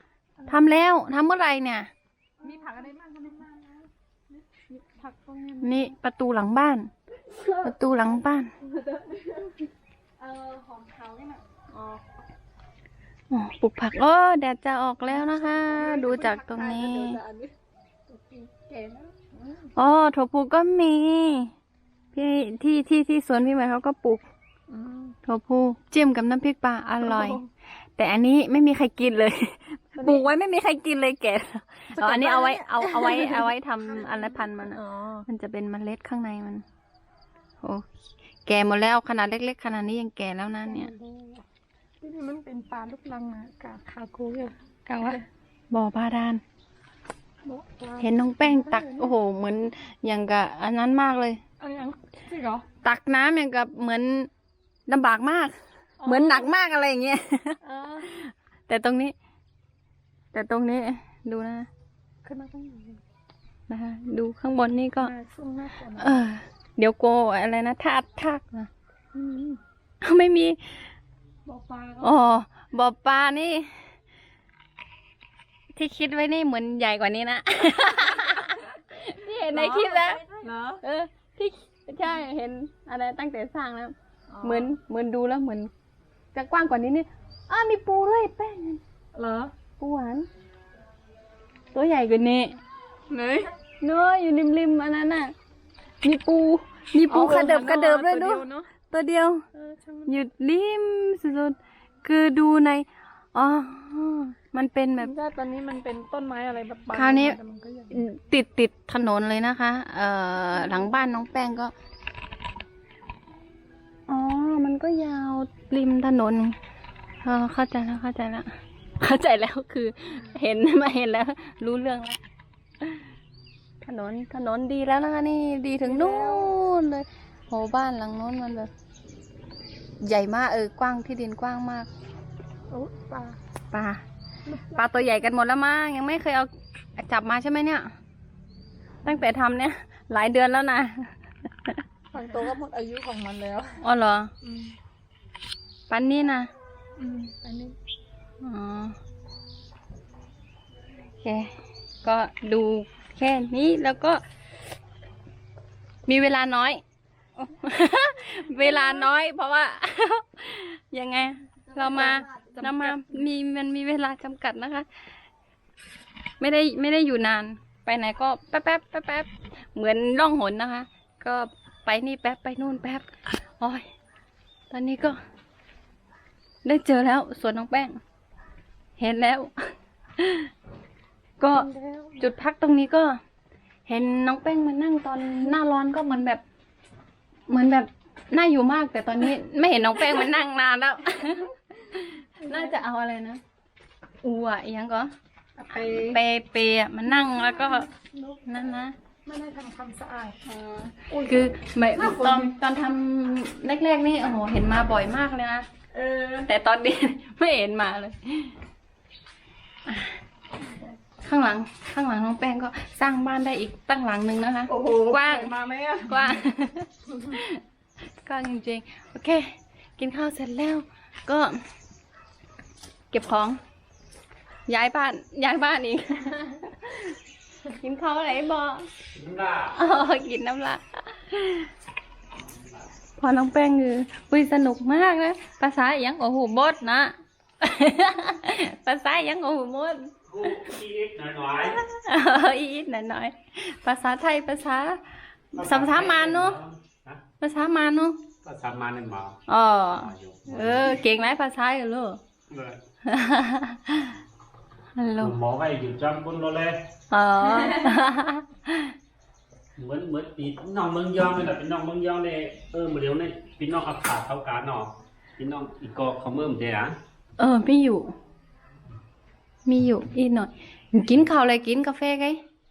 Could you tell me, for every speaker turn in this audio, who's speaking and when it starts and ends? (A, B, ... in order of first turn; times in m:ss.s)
0:00.4-0:00.7 A
0:00.5-0:01.9 B
0:02.4-0:03.9 A
0:04.5-0:05.9 A
0:05.6-0:06.9 B
0:07.3-0:07.6 A
0:07.6-0:08.5 B
0:08.6-0:09.6 A
0:10.2-0:12.0 A
0:13.3-0:17.2 B
0:15.4-0:17.5 A
0:18.1-0:19.7 A
0:19.8-0:21.5 B
0:22.1-0:24.2 B
0:24.7-0:25.1 A
0:25.2-0:27.4 B
0:27.0-0:27.4 A
0:28.0-0:36.6 B
0:31.9-0:35.2 A
0:38.4-0:40.9 B
0:40.6-0:41.4 A
0:42.0-0:44.5 A
0:44.8-0:45.2 B
0:45.7-0:46.4 B
0:47.4-0:49.1 A
0:48.0-0:51.4 B
0:51.6-0:52.6 A
0:52.8-0:54.3 B
0:54.9-0:59.1 B
0:56.0-0:56.5 A
0:57.6-0:58.1 A
1:00.3-1:01.7 B
1:02.2-1:03.0 A
1:03.7-1:05.1 B
1:05.0-1:06.2 A
1:06.0-1:08.7 B
1:09.1-1:09.6 A
1:10.0-1:10.9 B
1:11.4-1:12.1 A
1:12.0-1:13.8 B
1:15.7-1:20.2 B
1:19.5-1:20.8 A
1:20.8-1:25.7 B
1:24.3-1:24.7 A
1:26.3-1:28.8 B
1:29.1-1:29.5 A
1:29.8-1:30.3 B
1:31.7-1:32.6 B
1:33.1-1:33.5 A
1:33.8-1:35.3 B
1:36.0-1:39.4 B
1:37.1-1:38.7 A
1:39.5-1:40.1 A
1:40.1-1:45.1 B
1:45.0-1:48.0 A
1:46.9-1:47.4 B
1:47.9-1:51.7 B
1:54.1-1:56.6 B
1:57.2-2:02.2 B
2:03.8-2:08.7 B
2:05.8-2:06.5 A
2:10.0-2:11.9 B
2:12.7-2:13.4 A
2:13.7-2:14.0 B
2:14.4-2:15.2 A
2:14.7-2:17.9 B
2:19.0-2:21.1 B
2:22.1-2:23.8 A
2:23.8-2:24.3 B
2:24.4-2:24.7 A
2:25.9-2:26.5 B
2:27.0-2:27.7 A
2:28.4-2:29.0 B
2:31.2-2:34.2 B
2:36.1-2:36.8 B
2:37.4-2:44.9 B
2:41.7-2:43.1 A
2:46.4-2:53.9 B
2:54.7-2:55.2 B
2:56.6-2:58.0 B
2:59.0-3:00.5 B
3:01.4-3:03.2 B
3:01.5-3:02.2 A
3:03.9-3:06.4 B
3:07.5-3:13.4 B
3:12.4-3:12.7 A
3:14.2-3:15.1 B
3:15.6-3:16.2 A
3:15.7-3:17.9 B
3:17.1-3:18.4 A
3:18.4-3:18.9 B
3:19.2-3:20.4 A
3:20.4-3:25.7 B
3:21.1-3:22.5 A
3:25.9-3:26.5 A
3:26.4-3:28.5 B
3:29.8-3:30.2 B
3:31.2-3:37.6 B
3:34.7-3:36.4 A
3:38.2-3:41.6 B
3:43.1-3:43.6 B
3:44.7-3:47.1 B
3:47.7-3:48.9 B
3:49.1-3:49.9 C
3:49.7-3:51.7 B
3:53.2-4:00.1 B
4:00.3-4:01.8 C
4:01.5-4:06.6 B
4:05.5-4:07.2 C
4:07.4-4:08.2 B
4:08.4-4:11.0 C
4:09.5-4:12.2 B
4:12.5-4:12.8 C
4:13.0-4:14.2 B
4:15.0-4:15.3 B
4:15.2-4:16.8 C
4:17.1-4:18.9 B
4:17.5-4:17.9 A
4:19.8-4:27.0 C
4:27.4-4:28.1 B
4:29.6-4:32.4 B